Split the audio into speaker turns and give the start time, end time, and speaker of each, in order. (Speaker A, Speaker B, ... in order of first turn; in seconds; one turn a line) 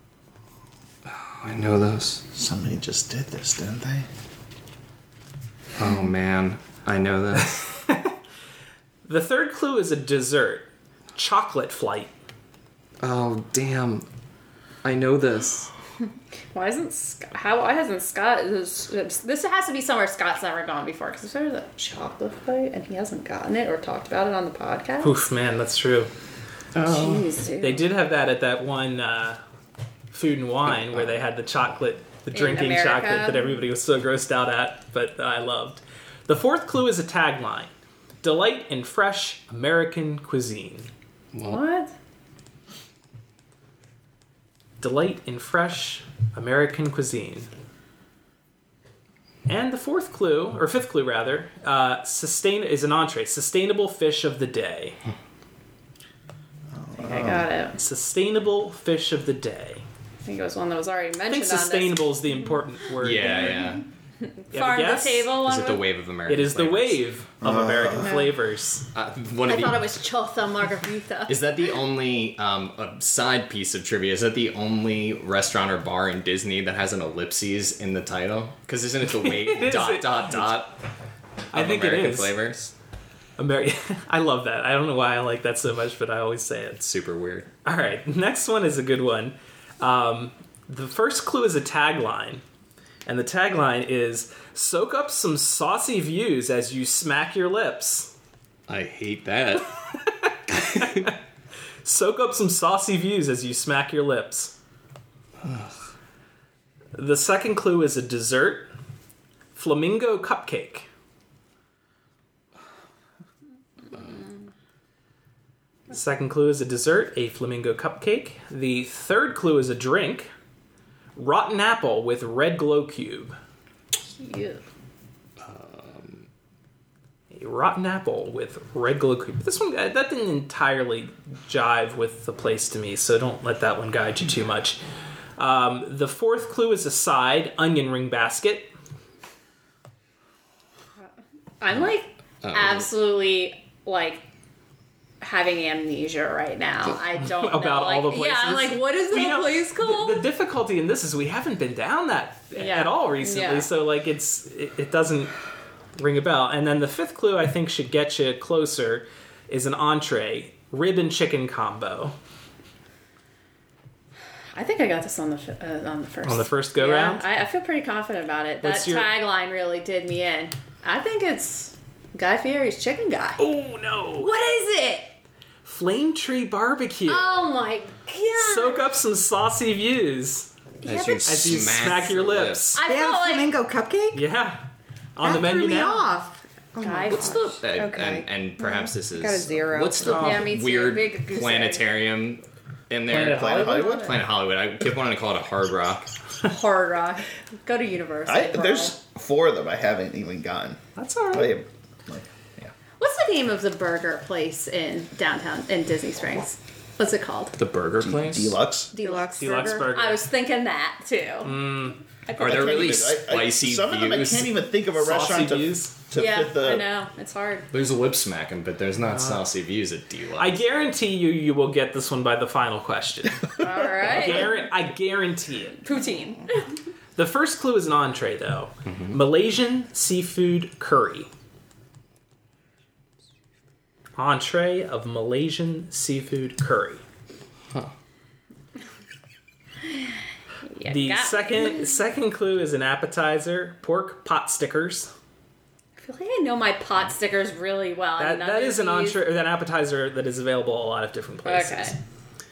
Speaker A: 1.1-2.3
Speaker B: 2.3-4.1
Speaker A: 5.8-7.8
Speaker C: 7.8-8.1
Speaker C: 9.0-12.1
Speaker A: 13.0-14.1
Speaker A: 14.8-15.7
Speaker D: 16.5-25.2
Speaker C: 25.0-26.1
Speaker A: 26.7-27.3
Speaker D: 26.8-27.9
Speaker C: 27.6-29.4
Speaker C: 30.1-37.7
Speaker A: 30.7-31.1
Speaker D: 32.3-33.6
Speaker C: 38.2-40.9
Speaker A: 41.3-41.6
Speaker D: 41.5-41.9
Speaker C: 44.8-47.5
Speaker C: 49.5-55.0
Speaker B: 56.7-57.5
Speaker D: 57.0-57.8
Speaker C: 57.8-59.8
Speaker D: 60.2-62.3
Speaker C: 61.3-63.6
Speaker A: 63.0-63.8
Speaker D: 64.2-65.8
Speaker C: 64.5-65.4
Speaker A: 65.4-67.0
Speaker C: 66.3-68.9
Speaker B: 67.4-68.2
Speaker D: 68.0-68.3
Speaker A: 68.9-69.9
Speaker D: 69.4-71.3
Speaker A: 71.3-80.8
Speaker C: 79.2-80.6
Speaker C: 81.5-82.4
Speaker A: 81.5-82.7
Speaker C: 83.4-86.8
Speaker A: 86.8-87.5
Speaker C: 87.6-92.4
Speaker C: 93.0-98.1
Speaker A: 98.7-99.7
Speaker C: 100.5-101.1
Speaker A: 100.8-101.0
Speaker C: 101.8-104.5
Speaker A: 105.4-105.7
Speaker C: 106.9-108.7
Speaker C: 109.5-110.9
Speaker C: 115.9-120.3
Speaker C: 121.2-123.3
Speaker D: 124.2-124.6
Speaker A: 125.4-126.2
Speaker C: 127.3-134.8
Speaker C: 135.4-138.7
Speaker D: 141.6-144.2
Speaker A: 142.4-142.9
Speaker D: 145.2-150.2
Speaker C: 147.2-155.3
Speaker D: 152.5-153.7
Speaker C: 156.0-162.1
Speaker D: 164.5-173.5
Speaker C: 166.2-167.2
Speaker C: 168.6-169.1
Speaker C: 173.4-174.3
Speaker D: 174.2-175.1
Speaker C: 175.6-177.4
Speaker D: 177.1-178.9
Speaker C: 178.3-180.5
Speaker D: 180.8-181.7
Speaker A: 180.8-182.8
Speaker C: 181.2-182.8
Speaker D: 182.7-183.5
Speaker E: 182.8-184.2
Speaker C: 184.1-186.1
Speaker E: 185.2-190.4
Speaker D: 186.8-187.6
Speaker A: 187.1-196.1
Speaker C: 190.1-190.4
Speaker D: 190.1-191.8
Speaker B: 193.1-194.2
Speaker C: 193.1-194.0
Speaker D: 193.8-194.1
Speaker D: 196.4-198.9
Speaker B: 198.3-200.8
Speaker C: 200.9-201.6
Speaker B: 201.3-202.7
Speaker D: 203.0-207.6
Speaker A: 207.6-208.6
Speaker B: 208.0-208.9
Speaker D: 208.9-213.1
Speaker E: 208.9-209.9
Speaker C: 209.4-210.3
Speaker C: 211.4-212.0
Speaker A: 212.4-214.5
Speaker B: 212.4-216.8
Speaker C: 214.9-215.9
Speaker D: 216.1-217.7
Speaker A: 217.7-220.7
Speaker C: 219.1-219.4
Speaker C: 220.4-225.8
Speaker D: 223.6-224.7
Speaker D: 225.8-226.7
Speaker C: 227.2-231.3
Speaker A: 228.8-229.2
Speaker C: 234.2-237.0
Speaker D: 240.7-241.9
Speaker C: 240.8-245.1
Speaker D: 246.0-249.2
Speaker C: 248.2-252.0
Speaker D: 251.4-251.9